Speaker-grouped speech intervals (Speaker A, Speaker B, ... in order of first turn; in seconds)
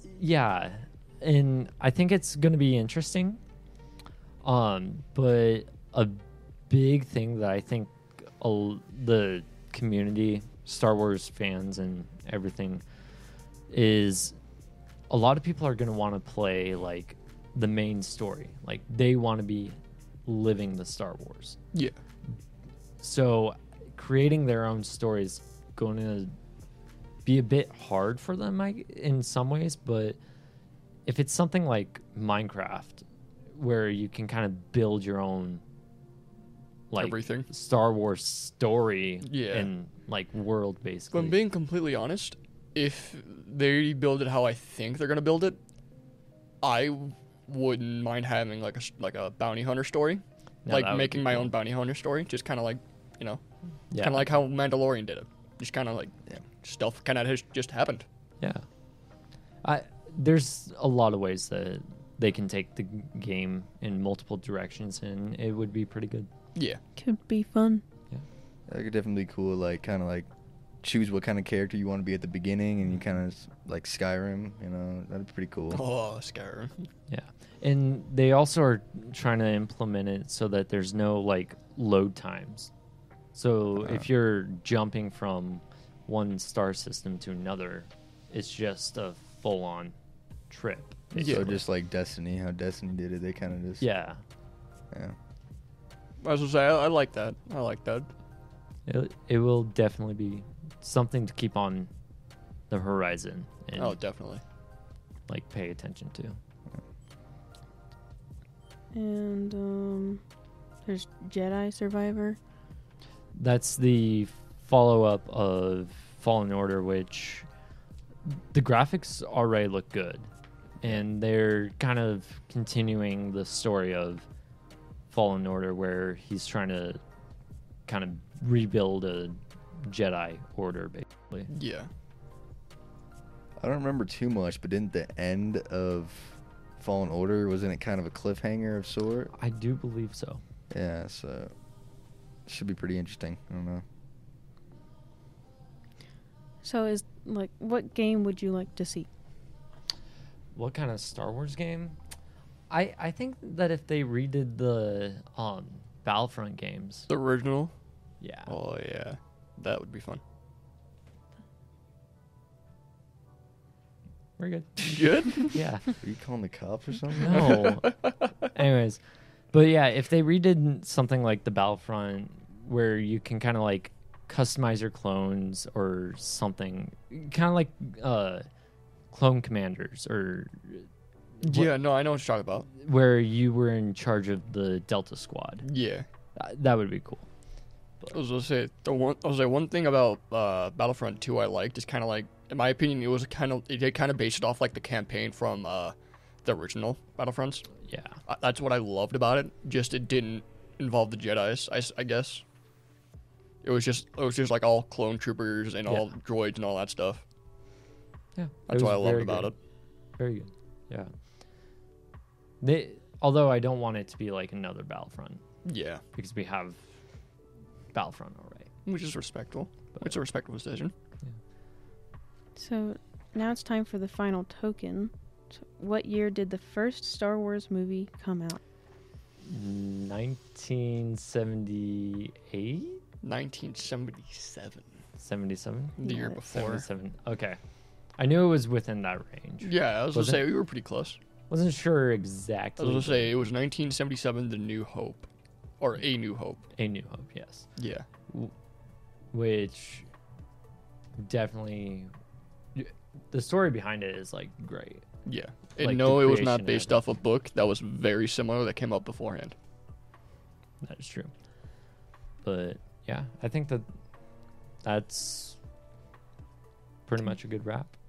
Speaker A: 0.1-3.4, 4.4-12.8, 13.7-14.4, 15.1-21.6, 23.0-26.3, 27.2-30.2, 31.1-33.0, 33.5-35.6, 36.9-41.4, 50.6-51.5, 53.9-54.4, 59.6-66.3, 77.1-82.7, 83.3-89.9, 90.5-91.6, 93.8-94.2, 98.9-101.9, 102.7-104.0, 105.3-106.4, 113.3-117.5, 118.3-120.3, 120.8-124.3, 125.1-127.0, 127.8-131.5, 139.3-140.4, 150.5-152.0, 152.7-157.1, 158.2-158.6, 164.4-165.9, 167.2-169.0, 169.5-178.4, 179.1-180.9, 181.4-181.7, 182.8-185.7, 186.3-187.3, 197.9-198.2, 208.3-209.5, 210.2-211.1, 212.6-215.4, 216.2-216.8, 217.9-218.7, 229.4-233.0, 235.2-237.6, 238.2-240.5, 241.5-243.4, 246.8-247.7, 249.3-250.1, 251.2-252.1, 252.7-255.1, 255.8-257.0, 260.8-261.3, 262.4-263.9, 264.8-265.6, 267.1-267.9
Speaker B: 37.0-37.5, 39.2-39.7, 41.1-45.6, 46.6-53.4, 54.0-58.1, 66.5-66.8, 75.7-76.9, 91.1-91.5, 96.2-98.1, 103.8-104.4, 131.5-131.9, 157.1-157.7, 158.5-160.2, 164.8-165.6, 181.4-182.7, 185.6-186.1, 188.1-197.7, 198.3-202.4, 203.6-207.2, 208.7-209.6, 215.7-216.0, 218.8-220.9, 233.2-234.9, 236.0-236.8, 239.6-241.2, 242.8-245.3, 245.8-246.6, 247.8-248.1, 255.3-259.6
Speaker C: 67.0-67.8, 108.9-110.2, 110.8-112.4, 146.6-149.1, 222.6-228.6, 236.0-236.4
Speaker D: 68.7-70.3, 70.8-75.8, 83.8-84.1, 91.2-93.8, 133.6-139.3, 140.7-141.5, 142.5-143.8, 166.0-167.6